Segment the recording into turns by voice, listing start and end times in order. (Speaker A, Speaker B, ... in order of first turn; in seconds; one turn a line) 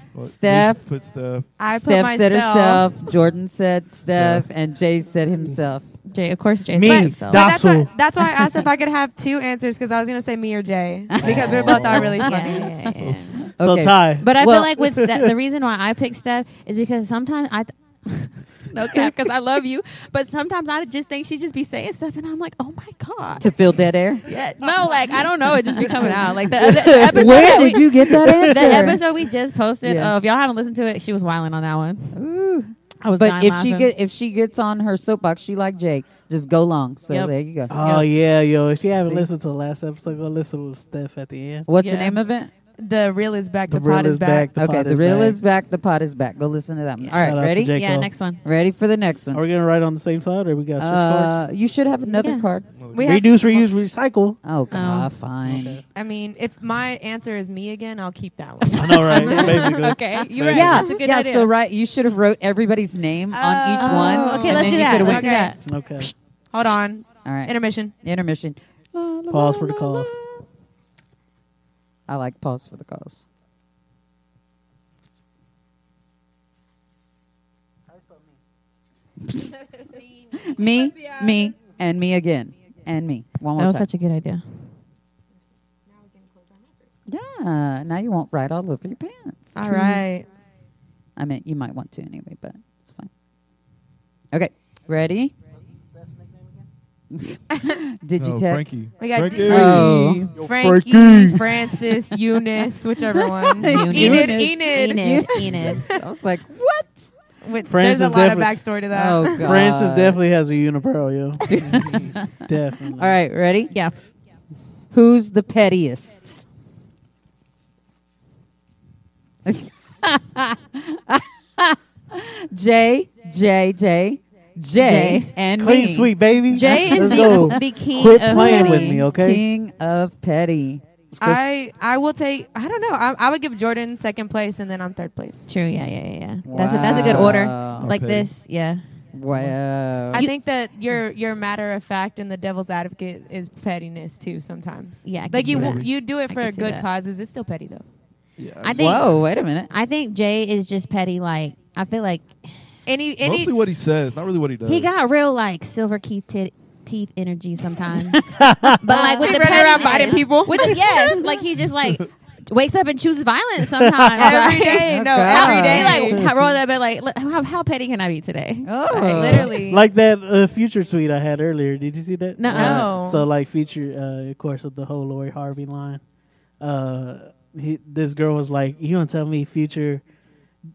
Speaker A: 0.1-1.5
Speaker B: 0.2-0.8
Speaker C: 1.6-2.9
Speaker B: 1.7-5.8
Speaker A: 4.0-4.5
Speaker D: 6.0-7.5
Speaker E: 6.7-7.9
Speaker C: 6.8-12.7
Speaker B: 11.1-12.7
Speaker A: 11.2-12.2
Speaker D: 12.2-13.4
Speaker A: 12.8-13.4
Speaker B: 13.4-14.8
Speaker E: 13.6-15.3
Speaker D: 14.2-23.5
Speaker B: 23.4-24.2
Speaker D: 24.2-32.2
Speaker E: 26.5-29.0
Speaker B: 27.0-29.0
Speaker B: 32.1-37.7
Speaker D: 33.0-33.9
Speaker D: 37.1-38.1
Speaker E: 37.7-41.7
Speaker B: 41.6-42.5
Speaker C: 41.8-42.2
Speaker C: 42.8-44.5
Speaker E: 43.7-45.4
Speaker B: 44.5-47.7
Speaker D: 47.0-48.4
Speaker E: 47.2-48.1
Speaker B: 48.4-49.4
Speaker E: 49.3-51.5
Speaker B: 50.8-52.8
Speaker D: 52.2-52.5
Speaker A: 52.7-53.3
Speaker C: 52.9-53.7
Speaker E: 53.0-54.4
Speaker B: 54.4-55.8
Speaker D: 54.7-55.1
Speaker E: 55.4-55.8
Speaker C: 55.9-61.0
Speaker E: 58.7-60.8
Speaker D: 59.0-61.5
Speaker B: 60.5-65.5
Speaker C: 63.3-65.5
Speaker D: 63.7-65.6
Speaker E: 65.6-66.1
Speaker C: 66.5-67.9
Speaker B: 67.2-70.2
Speaker E: 69.3-70.2
Speaker B: 72.1-73.2
Speaker B: 79.2-79.5
Speaker B: 80.3-83.9
Speaker D: 83.5-84.7
Speaker C: 85.9-86.8
Speaker B: 87.1-89.6
Speaker C: 89.5-90.3
Speaker D: 89.6-90.0
Speaker B: 91.2-93.1
Speaker B: 94.3-95.3
Speaker B: 97.1-100.3
Speaker A: 98.2-100.0
Speaker C: 99.0-105.8
Speaker E: 100.3-101.9
Speaker B: 103.5-107.1
Speaker D: 103.6-105.9
Speaker C: 107.4-109.6
Speaker E: 107.7-108.6
Speaker B: 108.9-110.2
Speaker E: 109.4-113.2
Speaker B: 111.5-112.4
Speaker B: 112.9-113.7
Speaker D: 113.7-113.9
Speaker B: 114.9-116.4
Speaker B: 119.4-127.6
Speaker D: 124.8-125.3
Speaker E: 125.6-129.4
Speaker D: 126.5-129.0
Speaker B: 128.3-130.8
Speaker C: 131.2-135.5
Speaker D: 135.5-138.8
Speaker B: 136.4-137.9
Speaker A: 136.9-138.3
Speaker B: 139.1-140.3
Speaker C: 140.1-147.8
Speaker D: 145.0-146.8
Speaker A: 145.5-145.9
Speaker B: 145.5-145.8
Speaker A: 148.4-149.2
Speaker D: 148.6-152.6
Speaker B: 148.8-149.7
Speaker C: 152.8-153.5
Speaker A: 153.2-154.9
Speaker D: 154.6-169.5
Speaker E: 158.3-158.8
Speaker C: 158.9-161.4
Speaker E: 163.8-164.2
Speaker C: 164.2-166.2
Speaker B: 164.4-166.1
Speaker B: 168.6-169.5
Speaker C: 168.9-169.8
Speaker E: 169.5-176.0
Speaker D: 172.4-172.9
Speaker C: 172.5-173.2
Speaker E: 176.6-180.0